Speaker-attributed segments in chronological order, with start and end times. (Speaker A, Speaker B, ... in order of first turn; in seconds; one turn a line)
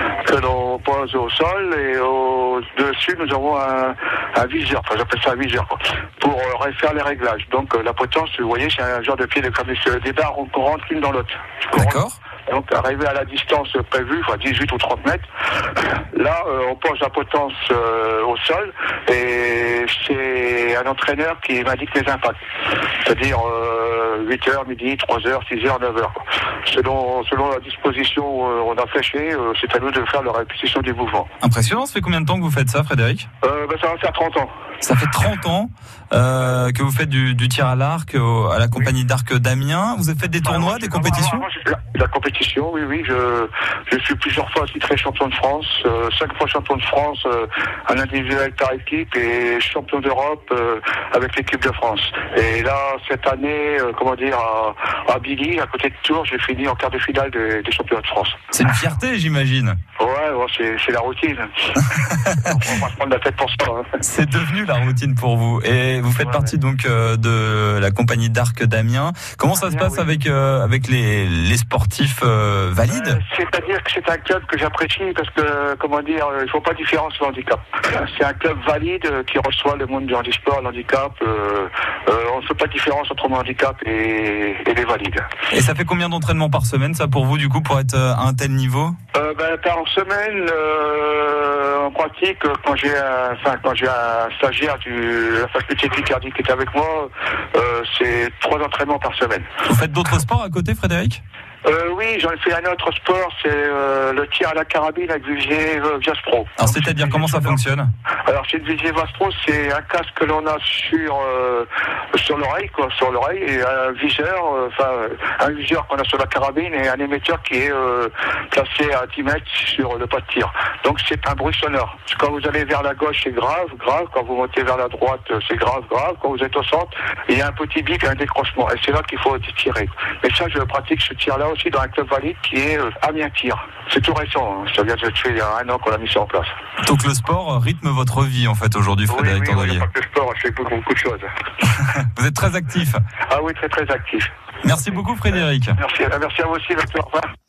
Speaker A: 0.2-15.2
Speaker B: 11.8-12.2
Speaker A: 15.8-31.3
Speaker B: 31.4-33.3
Speaker A: 33.4-34.5
Speaker B: 34.8-41.5
Speaker A: 40.4-58.5
Speaker B: 58.5-59.8
Speaker A: 60.0-64.0
Speaker B: 61.9-62.5
Speaker B: 64.0-73.2
Speaker A: 69.5-70.1
Speaker A: 72.9-85.2
Speaker B: 85.5-89.0
Speaker A: 89.1-99.5
Speaker B: 99.7-101.2
Speaker A: 101.6-107.6
Speaker B: 106.6-107.9
Speaker A: 108.2-136.5
Speaker B: 136.8-139.8
Speaker A: 139.1-141.3
Speaker B: 141.6-143.0
Speaker A: 143.3-144.3
Speaker B: 144.6-145.8
Speaker A: 145.8-147.3